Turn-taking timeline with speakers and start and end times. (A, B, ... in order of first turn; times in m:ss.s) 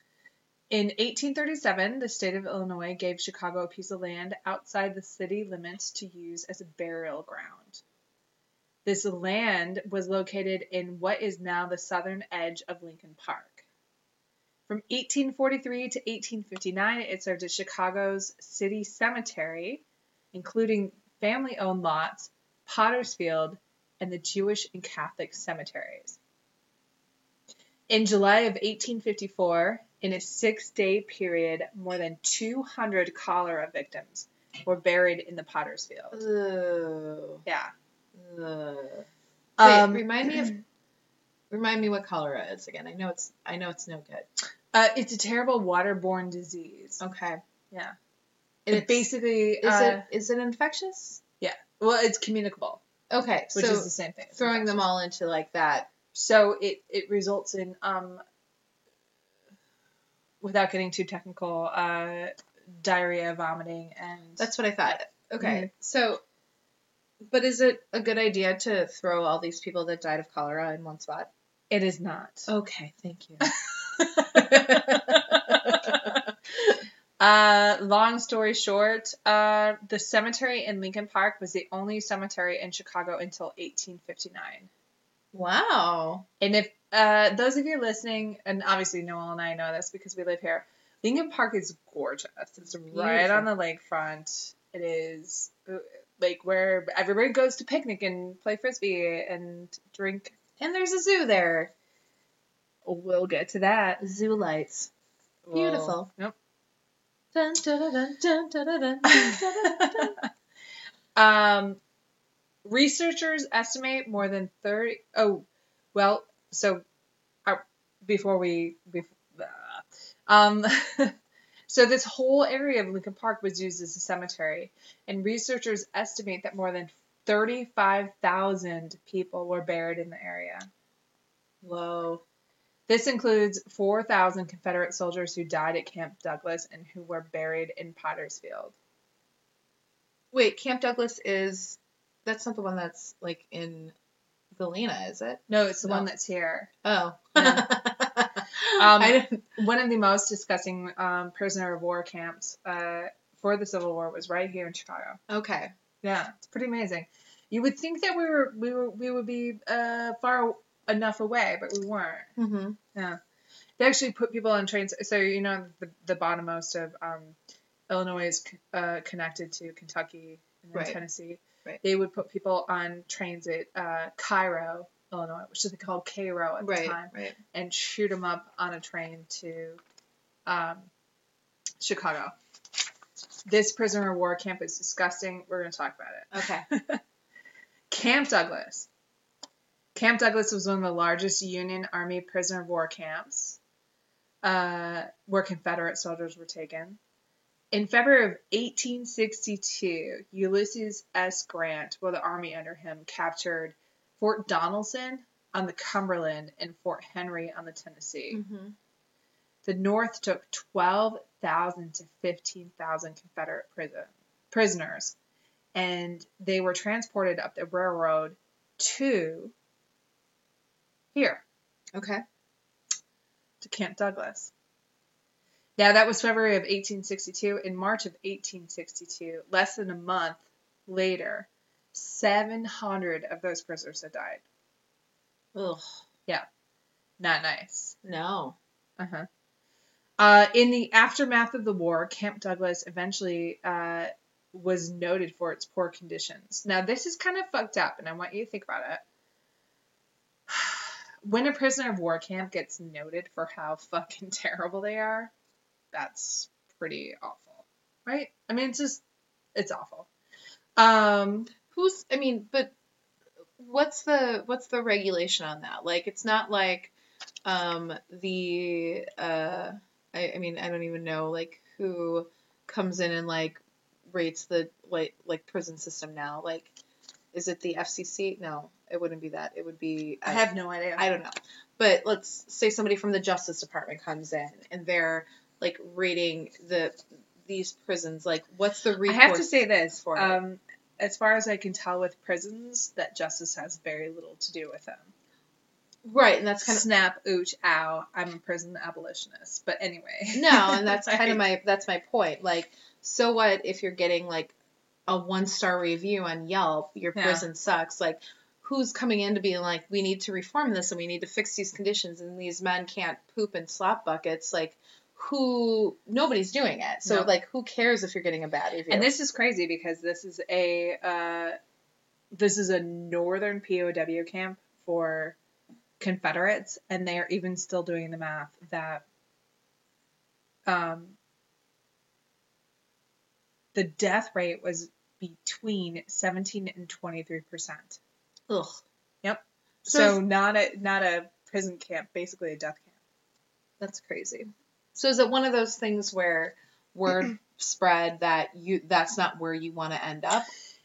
0:00.7-0:07.8 A
0:08.8-0:13.6 A
0:14.7-0:26.2 A
0:27.9-0:36.2 A
0:36.1-0:37.4 B
0:37.4-0:37.7 A
0:38.1-0:39.0 B
0:39.6-0:40.6 A
0:39.6-0:40.5 B
0:41.5-0:44.2 B
0:44.7-0:47.0 A
0:47.0-0:47.4 B
0:48.6-0:49.1 B
0:48.7-0:50.0 A
0:49.6-0:51.2 B
0:51.4-0:52.8 A
0:53.1-0:55.9 B
0:53.5-0:54.8 A
0:56.1-0:58.2 A
1:00.4-1:04.5 A
1:04.4-1:06.2 B
1:05.4-1:05.7 A
1:07.2-1:11.3 B
1:11.7-1:12.5 A
1:12.5-1:13.5 B
1:13.4-1:16.2 A
1:14.3-1:16.7 B
1:17.2-1:24.7 A
1:25.3-1:26.2 B
1:26.4-1:40.4 A
1:32.9-1:33.5 B
1:40.6-1:41.7 B
1:42.8-1:44.0 A
1:44.0-1:44.9 B
1:45.4-1:46.3 A
1:45.5-1:46.1 B
1:47.3-1:50.2 B
1:49.1-1:50.2 A
1:51.2-1:51.8 A
1:52.6-1:56.8 A
1:57.4-2:01.1 A
2:01.7-2:10.7 A
2:11.6-2:12.2 B
2:12.9-2:18.8 A
2:20.3-2:23.9 B
2:24.5-2:26.1 B
2:25.5-2:26.7 A
2:26.8-2:29.5 B
2:27.3-2:27.7 A
2:28.7-2:35.2 A
2:35.3-2:35.7 B
2:36.0-2:42.3 A
2:42.4-2:42.8 B
2:43.8-2:47.4 A
2:47.9-2:59.8 A
2:50.7-2:51.0 B
2:56.6-2:57.4 B
3:00.4-3:00.9 A
3:01.8-3:02.3 A
3:03.4-3:07.0 A
3:06.3-3:06.6 B
3:07.9-3:08.9 A
3:09.9-3:13.6 A
3:14.4-3:17.0 A
3:17.7-3:28.4 A
3:28.3-3:28.7 B
3:29.6-3:35.1 A
3:35.7-3:39.5 A
3:41.1-3:41.4 A
3:41.9-3:42.2 B
3:43.6-3:44.5 A
3:45.8-3:54.4 A
3:55.5-3:56.0 B
3:57.2-3:58.0 A
3:58.0-3:58.6 B
3:59.0-3:59.3 A
4:00.2-4:09.0 A
4:10.5-4:15.3 A
4:15.9-4:19.0 A
4:19.5-4:20.1 A
4:20.8-4:21.5 A
4:21.7-4:22.7 B
4:23.6-4:26.9 B
4:27.4-4:36.7 B
4:37.3-4:50.4 B
4:40.2-4:41.0 A
4:49.0-4:55.1 A
4:56.0-4:56.8 B
4:56.6-5:01.4 A
5:00.3-5:04.5 B
5:05.1-5:19.1 B
5:07.1-5:07.4 A
5:17.0-5:17.3 A
5:18.9-5:21.6 A
5:22.3-5:25.4 A
5:26.0-5:29.0 A
5:30.7-5:31.2 A
5:33.7-5:38.0 A
5:38.5-5:38.8 B
5:39.2-5:42.9 A
5:39.9-5:40.2 B
5:43.8-5:44.4 A
5:44.9-5:50.5 B